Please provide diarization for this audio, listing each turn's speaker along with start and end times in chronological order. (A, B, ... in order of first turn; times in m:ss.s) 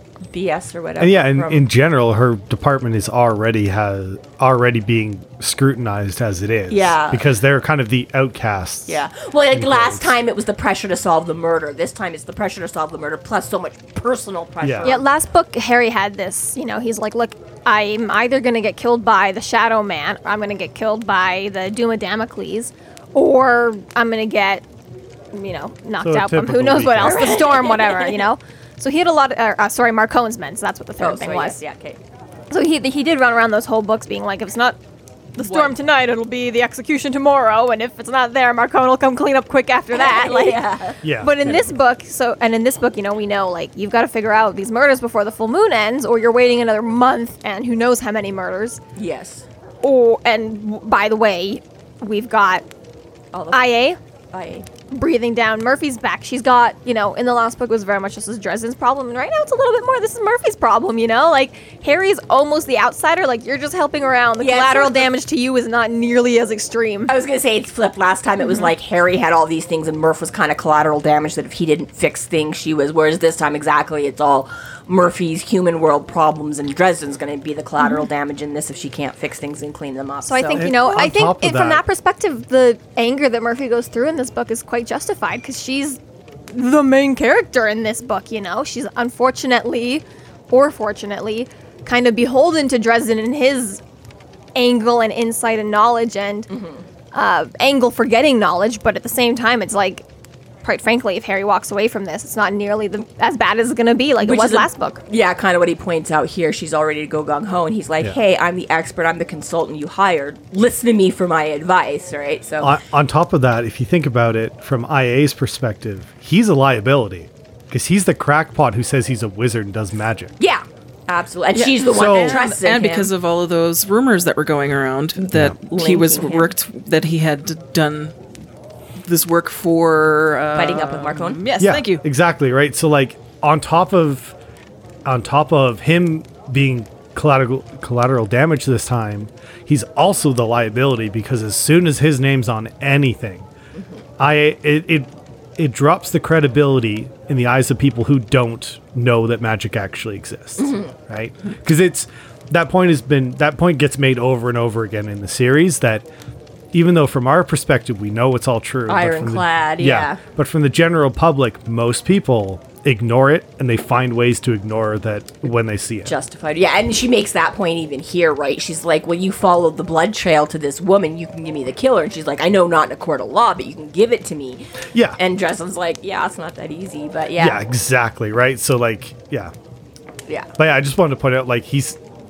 0:00.3-0:01.6 A
0:01.0-0:10.1 B
0:06.7-0:07.2 A
0:08.9-0:15.0 A
0:14.6-0:15.0 B
0:14.8-0:24.6 C
0:25.3-0:31.6 C
0:26.0-0:27.4 B
0:27.0-0:28.3 A
0:31.0-0:32.0 A
0:32.5-0:34.8 C
0:35.3-0:40.6 C
0:35.4-0:35.8 A
0:39.9-0:41.0 A
0:41.0-0:41.8 B
0:41.2-0:48.8 C
0:49.0-0:49.5 A
0:49.8-0:52.6 C
0:53.3-0:53.8 A
0:53.5-0:54.0 C
0:54.3-0:54.7 A
0:54.9-1:07.1 C
1:04.4-1:05.1 A
1:07.1-1:20.7 A
1:08.4-1:08.7 C
1:20.2-1:33.8 C
1:20.5-1:21.8 B
1:34.5-1:36.5 C
1:36.5-1:36.8 A
1:37.1-1:40.0 C
1:40.6-1:45.0 C
1:44.2-1:52.8 A
1:52.6-2:00.3 B
2:00.4-2:03.1 A
2:01.5-2:08.2 D
2:01.8-2:02.4 B
2:05.3-2:05.6 B
2:05.7-2:06.5 A
2:09.0-2:12.0 D
2:10.5-2:11.4 A
2:11.6-2:14.4 B
2:15.0-2:23.5 B
2:24.2-2:36.0 B
2:30.6-2:30.9 A
2:36.7-2:46.1 B
2:38.9-2:40.2 A
2:46.0-2:57.6 A
2:57.4-2:59.5 B
3:00.6-3:02.0 B